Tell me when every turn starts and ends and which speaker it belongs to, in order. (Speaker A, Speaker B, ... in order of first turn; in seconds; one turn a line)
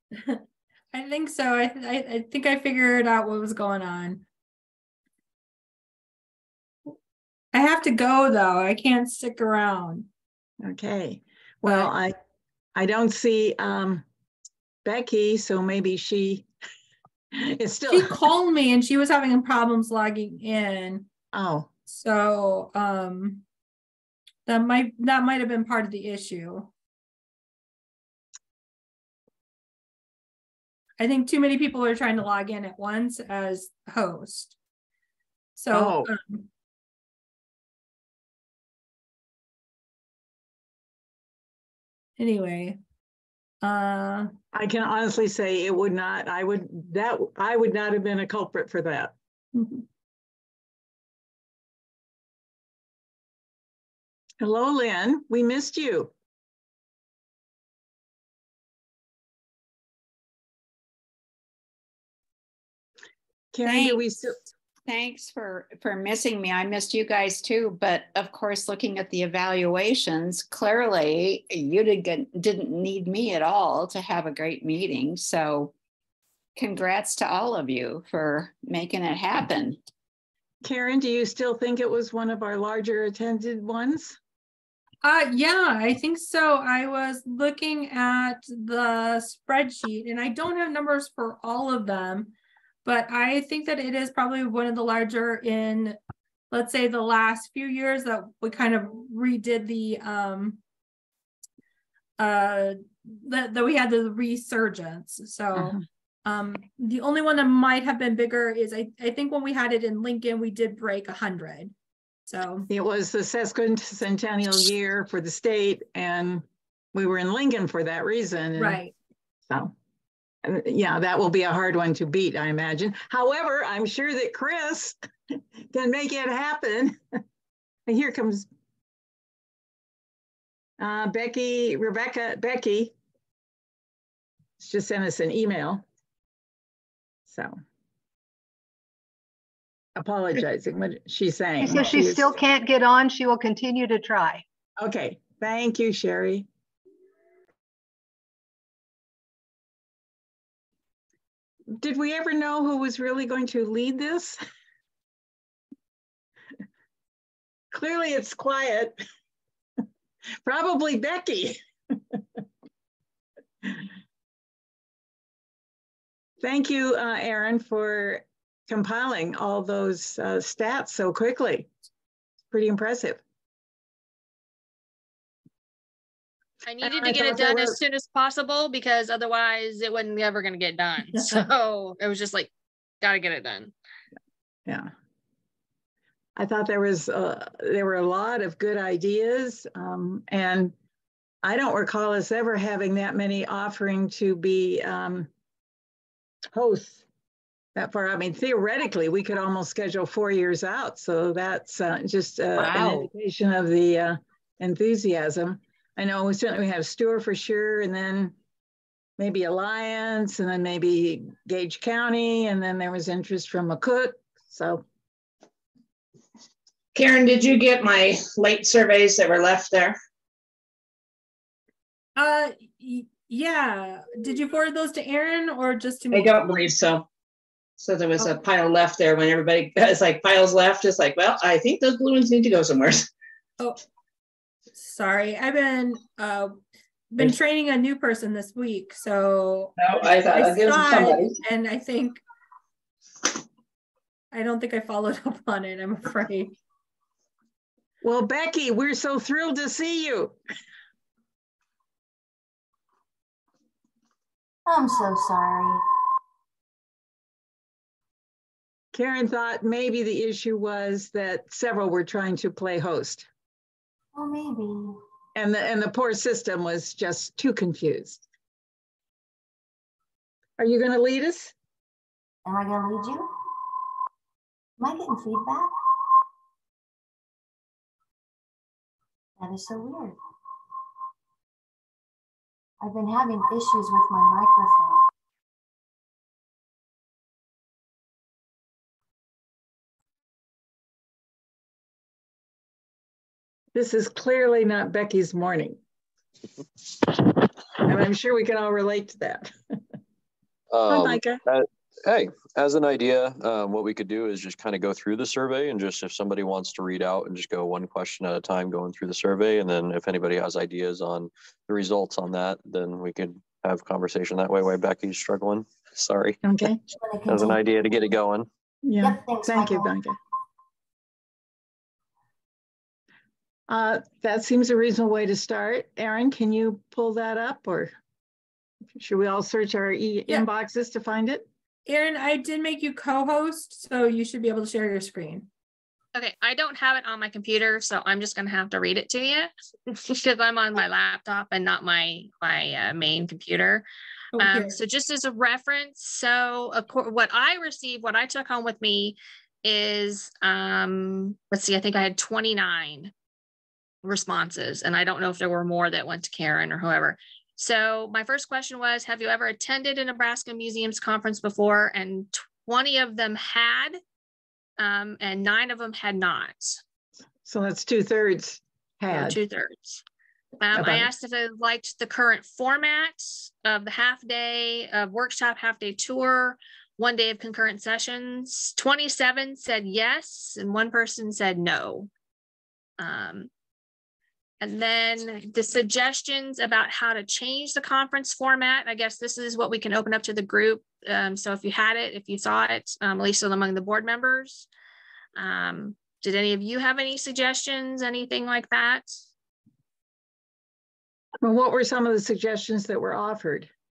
Speaker A: 0.9-4.2
Speaker A: 7.5-10.1
Speaker B: 10.6-12.1
Speaker A: 11.6-11.9
Speaker B: 12.7-14.0
Speaker B: 14.8-16.5
Speaker B: 17.3-18.3
Speaker A: 17.9-21.1
Speaker B: 21.3-21.7
Speaker A: 21.9-23.4
Speaker A: 24.4-26.7
Speaker A: 31.0-34.5
Speaker A: 35.5-36.5
Speaker B: 35.7-36.1
Speaker A: 42.2-42.8
Speaker A: 43.6-44.4
Speaker B: 44.5-49.1
Speaker B: 54.4-56.1
Speaker B: 63.5-64.4
Speaker C: 63.6-64.0
Speaker C: 64.9-75.7
Speaker C: 76.5-79.8
Speaker B: 80.6-84.2
Speaker A: 85.0-92.3
Speaker A: 92.8-96.0
Speaker A: 96.5-100.6
Speaker A: 102.2-111.7
Speaker B: 105.5-105.8
Speaker A: 112.3-112.7
Speaker B: 112.7-118.8
Speaker A: 118.6-118.9
Speaker B: 120.4-127.0
Speaker B: 127.9-128.5
Speaker B: 130.8-132.9
Speaker B: 134.6-135.8
Speaker B: 137.3-137.6
Speaker B: 139.9-142.4
Speaker D: 141.6-144.4
Speaker B: 144.8-146.5
Speaker B: 151.7-154.4
Speaker B: 157.7-159.0
Speaker B: 160.4-162.2
Speaker B: 166.4-171.7
Speaker B: 172.5-173.2
Speaker E: 176.6-183.7
Speaker B: 176.8-177.8
Speaker B: 184.7-184.9
Speaker B: 186.3-190.7
Speaker B: 191.4-195.3
Speaker B: 196.5-197.0
Speaker B: 197.7-208.3
Speaker C: 202.6-203.1
Speaker B: 209.2-214.8
Speaker F: 216.9-219.9
Speaker A: 222.2-226.5
Speaker F: 226.1-227.0
Speaker F: 227.8-233.1
Speaker A: 234.8-236.6
Speaker A: 237.1-239.8
Speaker F: 239.8-241.3
Speaker A: 240.3-242.2
Speaker A: 244.3-246.6
Speaker B: 248.0-250.4
Speaker G: 254.7-255.8
Speaker B: 258.9-263.3
Speaker G: 264.1-264.9
Speaker B: 265.3-268.2
Speaker B: 270.6-271.5
Speaker G: 272.4-273.3
Speaker G: 274.8-275.7
Speaker G: 279.4-280.2
Speaker G: 282.8-285.0
Speaker B: 293.7-295.8
Speaker B: 296.9-299.8
Speaker H: 300.7-316.4
Speaker B: 300.9-301.4
Speaker B: 316.4-316.8
Speaker G: 316.9-317.6
Speaker H: 317.2-318.5
Speaker B: 318.8-320.2
Speaker G: 319.0-320.0
Speaker B: 323.7-327.9
Speaker B: 328.9-331.4
Speaker A: 331.9-335.5
Speaker E: 336.1-343.8
Speaker A: 344.4-344.8
Speaker E: 344.4-353.1
Speaker E: 354.0-364.0
Speaker E: 364.8-366.8
Speaker B: 367.4-369.4
Speaker E: 369.1-370.0
Speaker E: 370.6-382.1
Speaker B: 370.7-371.1
Speaker E: 383.0-383.5
Speaker E: 384.6-394.7
Speaker E: 395.4-399.1
Speaker B: 401.4-403.7